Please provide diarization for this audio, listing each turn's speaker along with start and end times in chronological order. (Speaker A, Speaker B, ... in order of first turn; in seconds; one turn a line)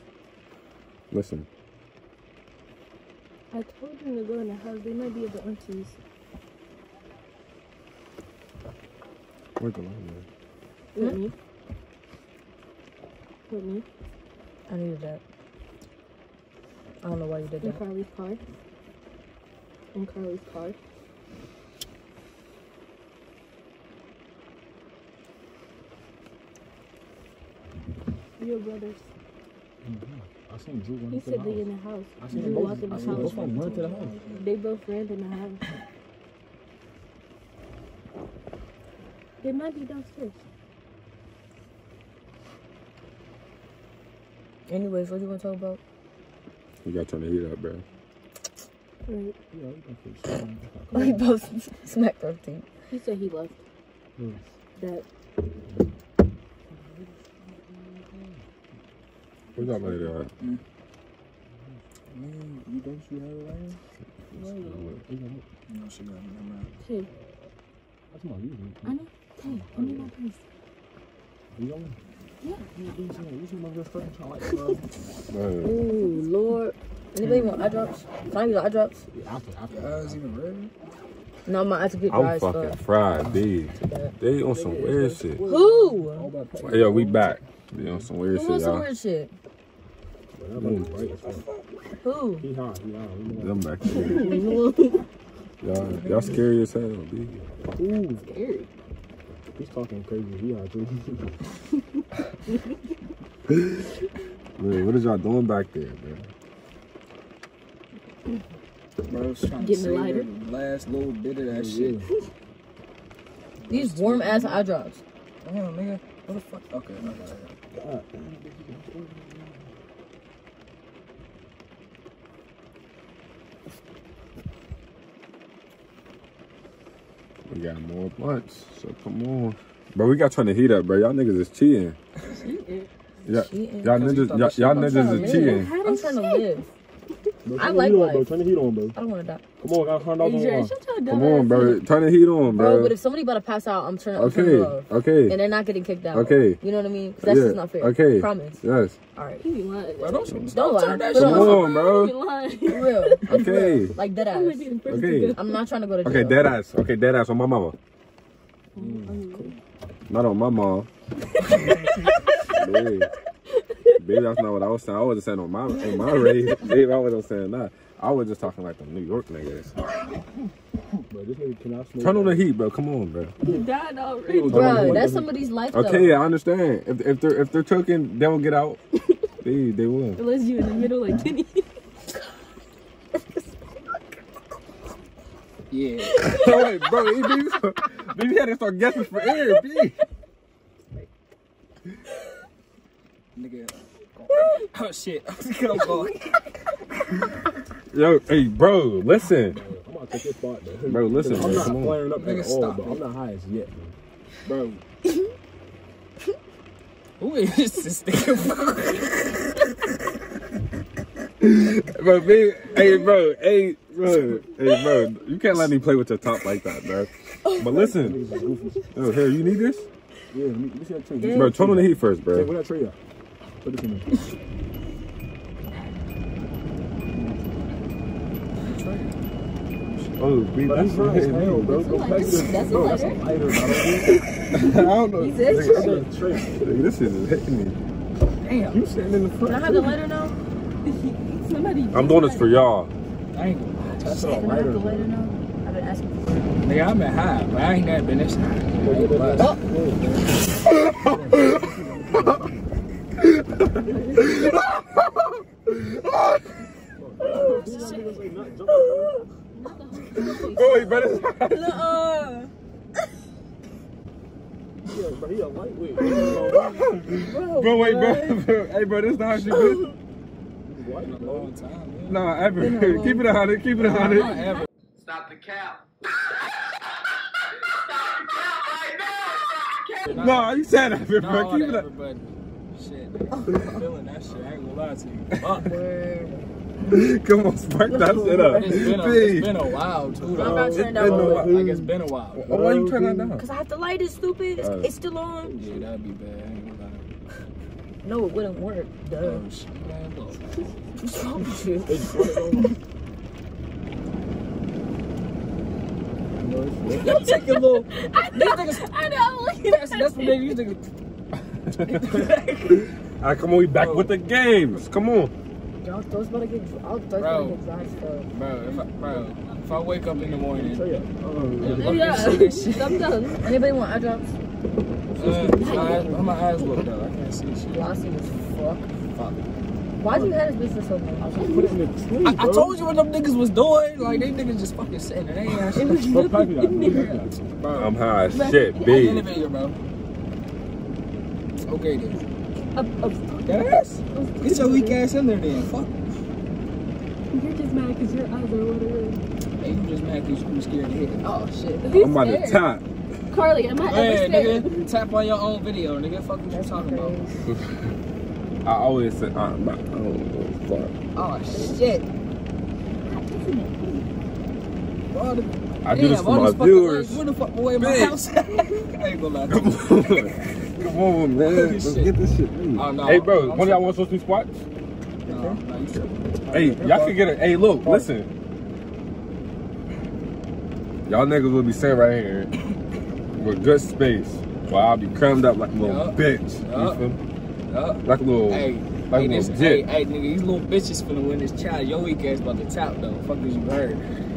Speaker A: 1.1-1.5
Speaker B: 3.5-6.0
Speaker A: 9.6-10.2
Speaker B: 10.9-11.3
Speaker B: 13.5-13.8
Speaker C: 14.7-15.2
Speaker C: 17.0-17.8
Speaker B: 17.6-18.4
Speaker B: 19.9-20.8
Speaker B: 28.4-29.1
Speaker D: 29.8-31.7
Speaker B: 31.1-33.5
Speaker D: 32.2-34.2
Speaker E: 32.3-34.5
Speaker B: 34.3-35.6
Speaker B: 39.4-40.4
Speaker C: 44.7-45.8
Speaker A: 46.8-47.8
Speaker B: 49.1-49.4
Speaker D: 49.5-51.2
Speaker C: 50.9-52.7
Speaker B: 52.9-53.6
Speaker B: 54.8-55.0
Speaker D: 58.1-58.4
Speaker A: 59.6-60.3
Speaker D: 59.6-60.1
Speaker D: 62.2-63.8
Speaker E: 62.2-63.5
Speaker D: 64.3-65.5
Speaker B: 64.4-64.9
Speaker E: 65.7-66.7
Speaker B: 66.8-67.1
Speaker D: 68.1-69.0
Speaker B: 68.8-70.4
Speaker C: 69.5-70.1
Speaker D: 69.6-70.1
Speaker D: 71.5-72.0
Speaker D: 72.7-74.9
Speaker A: 75.3-75.8
Speaker C: 75.6-79.0
Speaker D: 79.1-80.3
Speaker E: 79.7-80.7
Speaker C: 81.5-82.8
Speaker A: 82.1-85.4
Speaker C: 83.7-84.1
Speaker D: 84.5-87.3
Speaker C: 85.5-86.3
Speaker A: 86.6-88.9
Speaker C: 88.3-89.3
Speaker D: 90.3-91.5
Speaker A: 90.6-91.0
Speaker E: 91.2-91.5
Speaker C: 92.0-92.5
Speaker D: 92.4-94.5
Speaker A: 93.4-94.3
Speaker B: 94.0-95.0
Speaker A: 95.6-97.3
Speaker D: 97.3-98.2
Speaker B: 98.1-98.7
Speaker D: 99.5-101.4
Speaker A: 103.5-103.8
Speaker A: 104.6-106.2
Speaker E: 109.1-112.0
Speaker B: 109.6-110.3
Speaker D: 111.5-112.1
Speaker E: 113.7-114.7
Speaker C: 113.7-115.0
Speaker E: 115.4-117.5
Speaker D: 117.7-119.6
Speaker A: 127.5-132.0
Speaker B: 132.3-132.9
Speaker A: 133.3-135.7
Speaker C: 133.3-134.0
Speaker E: 133.9-135.4
Speaker B: 134.8-136.7
Speaker C: 135.2-136.7
Speaker D: 137.4-138.9
Speaker C: 137.5-138.3
Speaker C: 138.9-139.4
Speaker D: 139.6-140.8
Speaker B: 140.1-141.8
Speaker A: 141.1-142.9
Speaker C: 142.5-148.6
Speaker A: 144.2-145.4
Speaker A: 146.1-146.6
Speaker A: 147.2-149.0
Speaker C: 149.2-149.4
Speaker B: 149.4-153.2
Speaker E: 150.0-151.8
Speaker C: 150.5-151.7
Speaker A: 151.1-152.2
Speaker C: 152.6-154.7
Speaker A: 153.3-153.9
Speaker B: 154.2-155.6
Speaker A: 154.9-155.4
Speaker C: 155.3-156.6
Speaker A: 156.0-157.8
Speaker B: 158.8-159.6
Speaker D: 158.8-159.5
Speaker A: 160.1-160.9
Speaker A: 162.6-163.1
Speaker A: 164.0-169.8
Speaker D: 171.1-172.5
Speaker A: 172.0-173.3
Speaker B: 173.4-174.6
Speaker D: 174.2-175.3
Speaker C: 174.5-176.2
Speaker A: 174.5-175.1
Speaker A: 175.7-178.8
Speaker A: 179.4-180.2
Speaker B: 180.2-181.7
Speaker E: 185.7-186.2
Speaker B: 186.1-187.3
Speaker A: 186.2-190.0
Speaker E: 193.4-196.3
Speaker A: 197.9-199.6
Speaker D: 199.5-204.0
Speaker A: 200.9-202.1
Speaker E: 201.3-203.1
Speaker E: 204.4-204.8
Speaker E: 207.2-209.2
Speaker A: 211.4-218.2
Speaker D: 217.9-218.9
Speaker A: 218.9-219.9
Speaker D: 220.3-223.0
Speaker B: 221.2-221.6
Speaker A: 221.3-222.5
Speaker D: 223.6-224.3
Speaker E: 228.6-229.2
Speaker E: 229.8-230.2
Speaker A: 230.2-231.9
Speaker D: 230.6-234.2
Speaker B: 231.7-233.2
Speaker C: 232.0-233.2
Speaker C: 234.4-236.0
Speaker A: 234.5-236.1
Speaker D: 235.5-236.9
Speaker A: 236.6-237.8
Speaker E: 238.4-238.8
Speaker D: 238.7-240.0
Speaker C: 239.4-240.4
Speaker B: 240.8-242.6
Speaker A: 241.9-242.9
Speaker E: 243.3-244.6
Speaker D: 244.0-245.1
Speaker C: 244.1-246.7
Speaker E: 246.6-250.3
Speaker D: 248.8-250.1
Speaker C: 249.4-249.6
Speaker A: 250.7-252.4
Speaker D: 251.0-252.6
Speaker A: 253.2-256.4
Speaker B: 253.8-254.4
Speaker D: 257.0-259.3
Speaker C: 257.2-259.3
Speaker B: 257.3-258.4
Speaker B: 259.5-261.3
Speaker C: 260.2-260.5
Speaker A: 260.4-261.8
Speaker C: 261.4-262.5
Speaker D: 264.9-267.0
Speaker A: 266.0-269.9
Speaker C: 266.2-266.6
Speaker C: 267.2-268.4
Speaker B: 267.8-268.1
Speaker D: 270.6-271.5
Speaker E: 271.0-272.3
Speaker A: 272.1-274.4
Speaker C: 272.6-273.2
Speaker E: 273.8-274.7
Speaker E: 280.1-280.6
Speaker A: 280.1-281.9
Speaker E: 281.1-282.2
Speaker E: 282.7-285.7
Speaker C: 283.4-283.8
Speaker C: 285.6-286.5
Speaker A: 286.9-289.6
Speaker C: 287.9-288.9
Speaker E: 288.5-292.4
Speaker D: 290.3-293.4
Speaker C: 290.3-291.5
Speaker A: 290.8-291.5
Speaker A: 292.4-293.4
Speaker C: 293.4-295.6
Speaker A: 294.6-294.9
Speaker D: 295.5-295.8
Speaker E: 295.6-297.1
Speaker C: 298.0-299.4
Speaker E: 299.2-300.4
Speaker C: 301.0-302.6
Speaker D: 301.8-302.7
Speaker D: 306.4-307.3
Speaker E: 307.0-308.8
Speaker B: 307.2-310.5
Speaker E: 309.6-310.9
Speaker A: 311.8-312.0
Speaker E: 311.9-312.7
Speaker A: 313.2-315.3
Speaker E: 313.8-314.1
Speaker C: 315.8-318.3
Speaker E: 317.2-317.6
Speaker E: 318.3-320.9
Speaker B: 318.7-320.2
Speaker D: 320.5-322.0
Speaker E: 321.6-323.1
Speaker B: 321.6-323.4
Speaker C: 321.6-324.3
Speaker D: 325.1-325.9
Speaker E: 325.2-328.0
Speaker C: 325.3-326.4
Speaker B: 325.5-326.4
Speaker C: 327.7-328.9
Speaker E: 329.1-329.4
Speaker C: 330.0-331.3
Speaker D: 330.1-330.4
Speaker D: 331.2-332.8
Speaker B: 331.4-331.8
Speaker E: 332.2-336.1
Speaker B: 335.8-337.2
Speaker D: 336.0-337.6
Speaker E: 336.9-337.9
Speaker A: 337.7-339.3
Speaker B: 338.3-339.5
Speaker E: 338.8-339.8
Speaker E: 341.7-342.2
Speaker B: 342.7-345.0
Speaker E: 343.5-346.0
Speaker B: 347.3-349.2
Speaker E: 349.6-351.3
Speaker C: 351.2-352.1
Speaker B: 351.8-352.6
Speaker A: 351.9-352.8
Speaker B: 353.3-354.8
Speaker E: 353.8-357.2
Speaker C: 356.5-357.5
Speaker A: 358.6-360.9
Speaker E: 361.1-362.1
Speaker B: 363.1-364.1
Speaker E: 365.1-370.4
Speaker A: 365.9-367.2
Speaker A: 367.8-368.2
Speaker A: 369.5-374.6
Speaker E: 371.5-372.1
Speaker E: 372.8-373.9
Speaker D: 375.3-375.6
Speaker E: 375.3-376.9
Speaker D: 376.4-377.2
Speaker A: 376.5-378.3
Speaker D: 377.8-378.1
Speaker A: 381.1-382.5
Speaker A: 383.4-387.2
Speaker E: 385.8-387.1
Speaker E: 387.7-394.0
Speaker A: 388.0-389.9